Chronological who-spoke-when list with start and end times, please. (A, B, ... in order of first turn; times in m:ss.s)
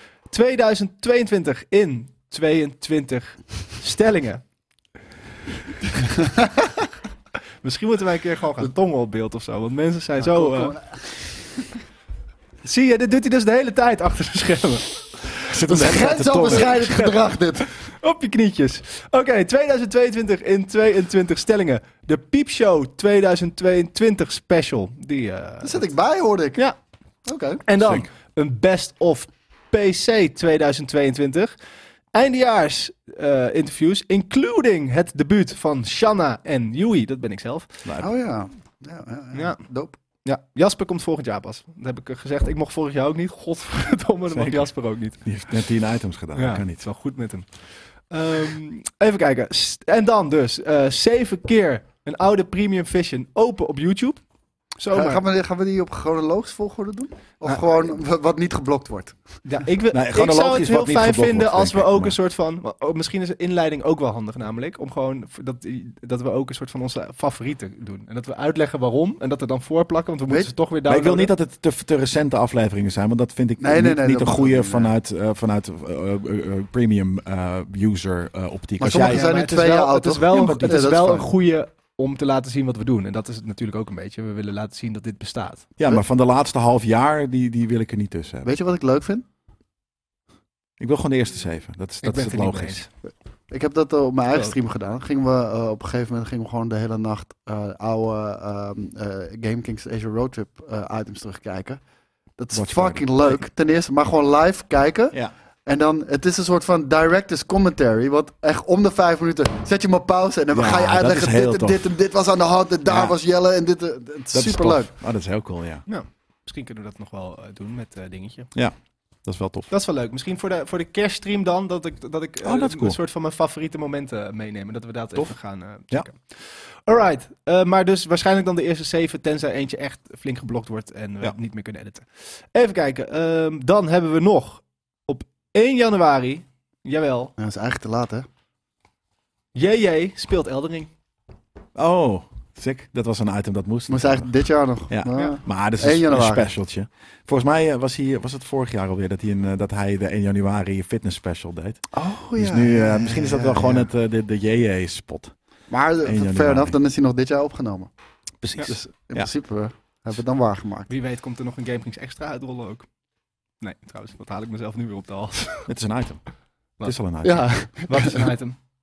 0:00.3-0:04.4 A
0:05.9-0:06.3 A
0:06.2-0:06.7 B
0:07.6-0:10.8 A
0:10.2-0:11.2 B
0:12.6-0:15.0 A
0:15.5-0:16.9 C
0:15.6-0:17.7 B
0:16.5-0:25.9 A
0:25.6-0:26.6 B
0:27.2-0:27.6 B
0:27.6-0:31.5 A
0:27.8-0:28.1 C
0:32.1-0:37.7 A
0:37.8-0:38.1 C
0:38.0-0:40.0 B
0:39.3-0:39.6 A
0:40.2-0:45.2 A
0:44.3-0:44.7 C
0:45.2-0:46.8 C
0:46.3-0:54.2 A
0:54.8-0:55.2 A
0:54.9-0:59.2 B
0:59.4-1:11.3 A
0:59.9-1:02.2 C
1:10.8-1:19.3 C
1:13.6-1:14.9 B
1:18.8-1:21.3 B
1:19.0-1:25.7 A
1:20.3-1:20.8 C
1:25.8-1:28.5 C
1:28.4-1:29.2 B
1:30.8-1:32.8 C
1:32.0-1:32.9 A
1:33.5-1:41.8 B
1:42.4-1:54.9 B
1:42.5-1:43.4 C
1:50.5-1:51.9 C
1:52.9-1:53.2 C
1:54.3-1:55.8 C
1:55.9-1:58.5 A
1:58.5-1:59.7 C
1:59.7-2:17.3 A
2:02.4-2:03.0 C
2:17.4-2:18.3 B
2:19.5-2:20.9 A
2:21.7-2:24.3 C
2:23.9-2:26.5 B
2:24.9-2:35.3 C
2:31.9-2:33.9 B
2:35.7-2:37.9 B
2:36.0-2:36.7 C
2:38.4-2:39.3 C
2:38.6-2:40.9 B
2:40.9-2:42.9 A
2:43.6-2:45.7 A
2:45.6-2:47.5 C
2:47.2-2:48.3 B
2:47.6-2:48.6 A